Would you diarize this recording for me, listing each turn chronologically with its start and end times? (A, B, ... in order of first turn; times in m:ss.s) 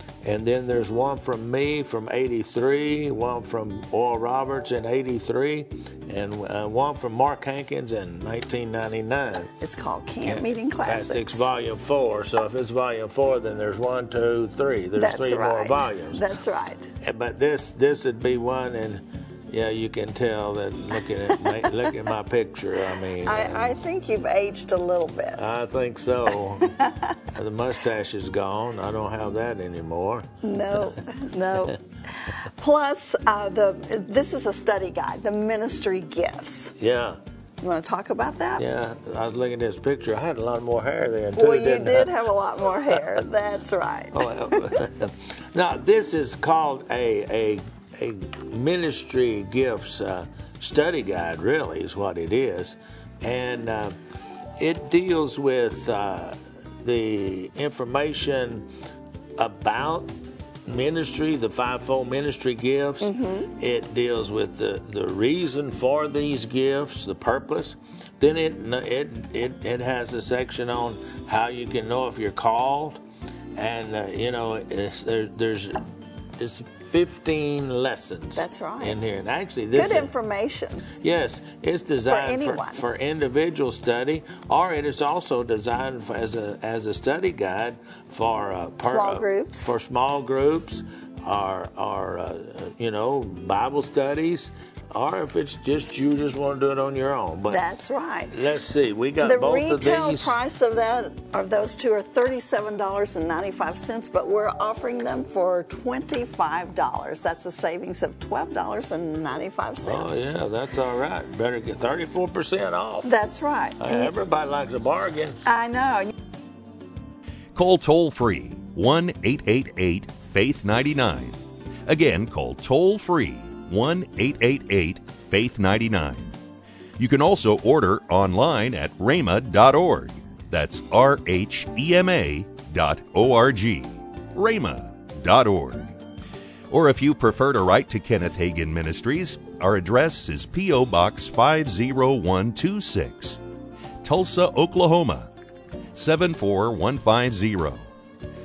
0:00.2-0:09.5 A
0:09.6-0:11.5 B
0:10.2-0:16.2 A
0:15.0-0:16.9 B
0:17.0-0:23.7 A
0:23.2-0:25.4 B
0:25.4-0:26.7 A
0:26.6-0:26.9 B
0:27.3-0:30.9 A
0:30.4-0:36.7 B
0:36.8-0:37.2 A
0:37.6-0:38.7 B
0:38.6-0:42.1 A
0:41.3-0:44.8 B
0:44.1-0:54.0 A
0:54.6-0:58.7 A
0:59.4-1:00.1 A
1:00.7-1:13.0 A
1:03.0-1:03.5 B
1:13.6-1:15.9 A
1:16.4-1:20.1 A
1:18.4-1:19.0 B
1:19.7-1:20.9 B
1:20.9-1:37.7 A
1:22.0-1:22.9 B
1:28.8-1:29.7 B
1:37.5-1:38.4 B
1:38.3-1:40.4 A
1:39.2-1:50.4 B
1:49.8-1:53.2 A
1:53.0-1:54.1 B
1:53.8-1:55.4 A
1:55.5-1:56.1 B
1:57.5-2:06.3 C
2:07.0-2:15.9 C
2:16.7-2:23.4 C
2:24.0-2:25.3 C
2:25.9-2:27.9 C